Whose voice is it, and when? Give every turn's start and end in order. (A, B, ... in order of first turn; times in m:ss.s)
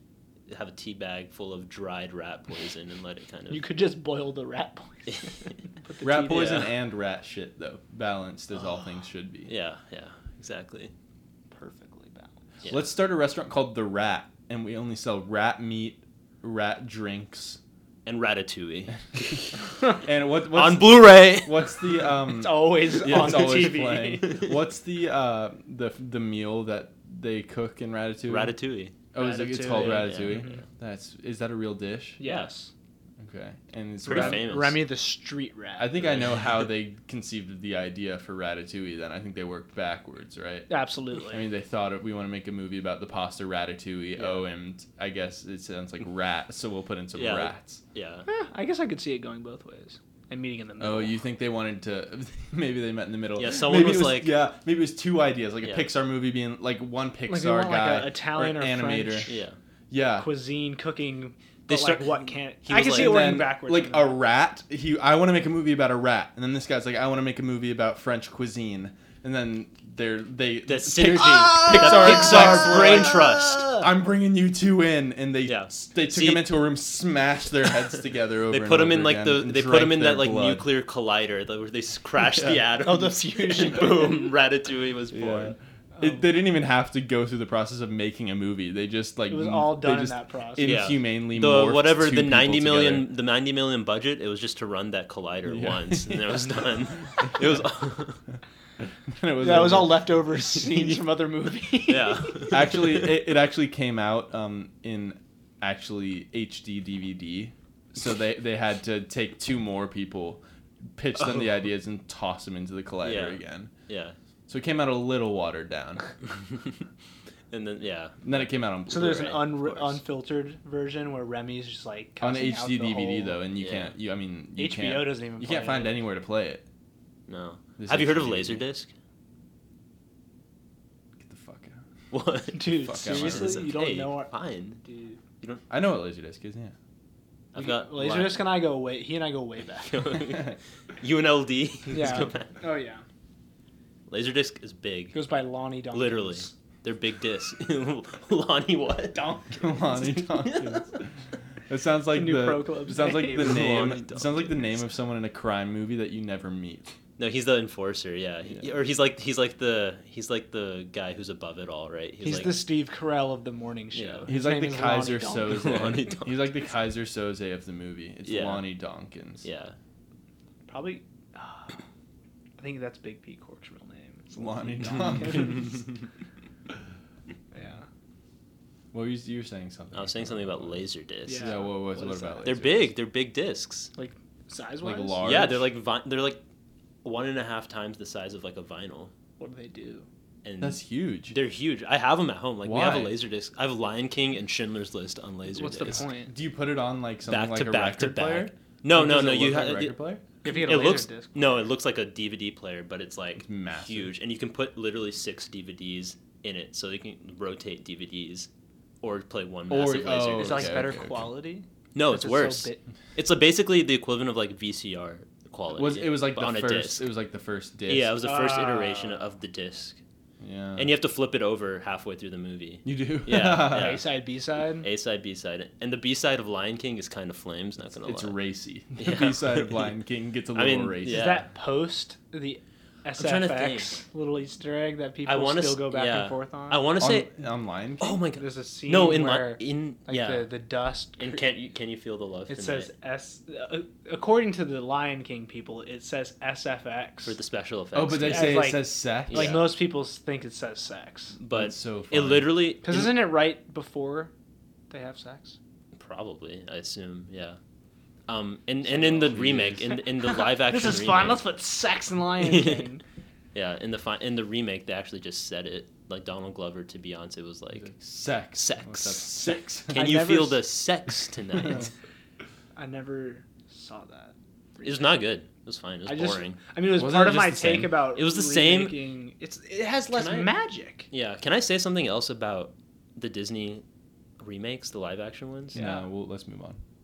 0:00.5-0:03.6 A
0:03.5-0:06.7 B
0:06.0-0:09.5 C
0:06.3-0:06.6 A
0:09.5-0:10.9 A
0:11.5-0:12.3 B
0:12.7-0:17.6 C
0:18.1-0:19.6 A
0:20.0-0:28.6 C
0:20.5-0:21.8 A
0:22.3-0:24.4 B
0:28.3-0:29.0 A
0:29.1-0:32.2 C
0:29.2-0:30.6 B
0:29.7-0:30.6 A
0:32.2-0:32.7 B
0:32.2-0:32.5 A
0:33.2-0:34.5 C
0:34.0-0:34.9 A
0:34.0-0:36.2 B
0:35.8-0:40.7 C
0:36.0-0:36.5 A
0:40.7-0:41.4 B
0:41.2-0:47.8 C
0:47.2-0:48.3 A
0:48.3-0:51.2 B
0:50.8-0:59.3 C
0:53.4-0:54.4 A
0:55.6-0:55.9 A
0:57.3-0:59.4 B
0:59.3-0:59.6 A
0:59.9-1:00.3 C
1:00.2-1:04.2 B
1:01.7-1:03.4 A
1:02.8-1:20.7 C
1:10.7-1:13.9 A
1:15.5-1:16.5 A
1:18.5-1:25.6 A
1:22.3-1:22.6 C
1:22.8-1:24.3 B
1:25.1-1:33.1 C
1:25.9-1:26.3 B
1:29.3-1:30.8 B
1:30.6-1:38.2 A
1:35.5-1:36.6 C
1:39.1-1:40.1 C
1:39.4-1:42.6 B
1:40.6-1:41.0 A
1:41.9-1:43.2 A
1:42.5-1:50.4 C
1:51.0-1:53.7 C
1:53.0-1:54.2 A
1:54.5-1:56.1 C
1:57.5-2:00.0 A
1:58.2-1:59.3 C
1:58.9-2:03.4 B
2:02.2-2:06.6 C
2:03.6-2:04.0 A
2:04.6-2:06.0 B
2:07.3-2:08.9 A
2:07.8-2:08.6 C
2:11.2-2:11.8 C
2:12.1-2:14.8 A
2:12.5-2:14.3 B
2:12.7-2:13.7 C
2:14.8-2:15.2 B
2:15.7-2:16.8 C
2:17.5-2:18.5 A
2:17.6-2:20.2 B
2:19.8-2:22.5 A
2:21.9-2:23.0 B
2:24.1-2:25.2 A
2:25.1-2:26.5 B
2:25.9-2:29.4 A
2:29.1-2:30.3 B
2:29.6-2:31.1 C
2:30.4-2:30.8 A
2:31.7-2:36.9 C
2:32.1-2:33.8 B
2:33.2-2:34.8 A
2:37.2-2:42.6 A
2:42.2-2:45.9 B
2:43.9-2:44.3 A
2:44.3-2:49.4 C
2:45.4-2:46.6 A
2:48.2-2:48.6 A
2:49.4-2:49.8 A
2:50.7-2:51.8 B
2:52.6-2:55.8 B
2:54.4-2:55.8 C
2:55.0-2:55.7 A
2:57.5-2:57.9 B
2:58.9-3:02.9 C
2:59.9-3:01.6 A
3:01.3-3:02.5 B
3:02.4-3:03.9 A
3:04.0-3:05.5 B
3:04.8-3:05.7 C
3:05.2-3:06.4 A
3:07.0-3:09.1 A
3:09.4-3:10.1 B
3:10.4-3:16.1 A
3:10.6-3:11.4 C
3:12.6-3:13.2 C
3:15.5-3:16.3 B
3:15.8-3:20.2 C
3:17.3-3:28.5 A
3:20.4-3:21.6 B
3:23.4-3:24.1 C
3:29.0-3:30.8 A
3:29.7-3:31.2 C
3:30.4-3:32.8 B
3:32.0-3:37.1 A
3:35.7-3:38.1 C
3:37.9-3:40.0 A
3:38.2-3:39.3 B
3:40.4-3:40.9 C
3:40.8-3:44.1 A
3:42.8-3:44.0 C
3:43.7-3:44.9 B
3:44.8-3:48.4 A
3:48.0-3:51.3 C
3:49.0-3:49.9 A
3:50.6-3:51.5 A
3:51.0-3:56.8 B
3:53.2-3:54.0 A
3:55.2-3:57.3 A
3:57.0-3:58.2 C
3:58.0-4:00.5 A
3:58.4-4:01.5 B
4:01.2-4:02.9 A
4:02.5-4:07.4 B
4:07.3-4:08.8 A
4:07.9-4:09.6 C
4:08.2-4:11.4 B
4:09.3-4:09.8 A
4:11.4-4:13.1 A
4:11.5-4:12.6 C
4:12.8-4:14.3 B
4:14.9-4:15.6 B
4:16.0-4:17.6 A
4:18.3-4:21.4 A
4:18.9-4:20.0 C
4:20.2-4:23.0 B
4:22.4-4:22.9 A
4:23.5-4:27.9 A
4:27.8-4:30.0 C
4:28.6-4:31.9 A
4:29.9-4:30.6 B
4:32.8-4:35.1 B
4:34.8-4:36.6 A
4:36.1-4:41.1 B
4:36.9-4:38.0 C
4:38.1-4:39.0 A
4:40.1-4:40.5 A
4:41.1-4:43.8 A
4:44.4-4:45.8 A
4:45.7-4:46.1 B
4:45.7-4:46.8 C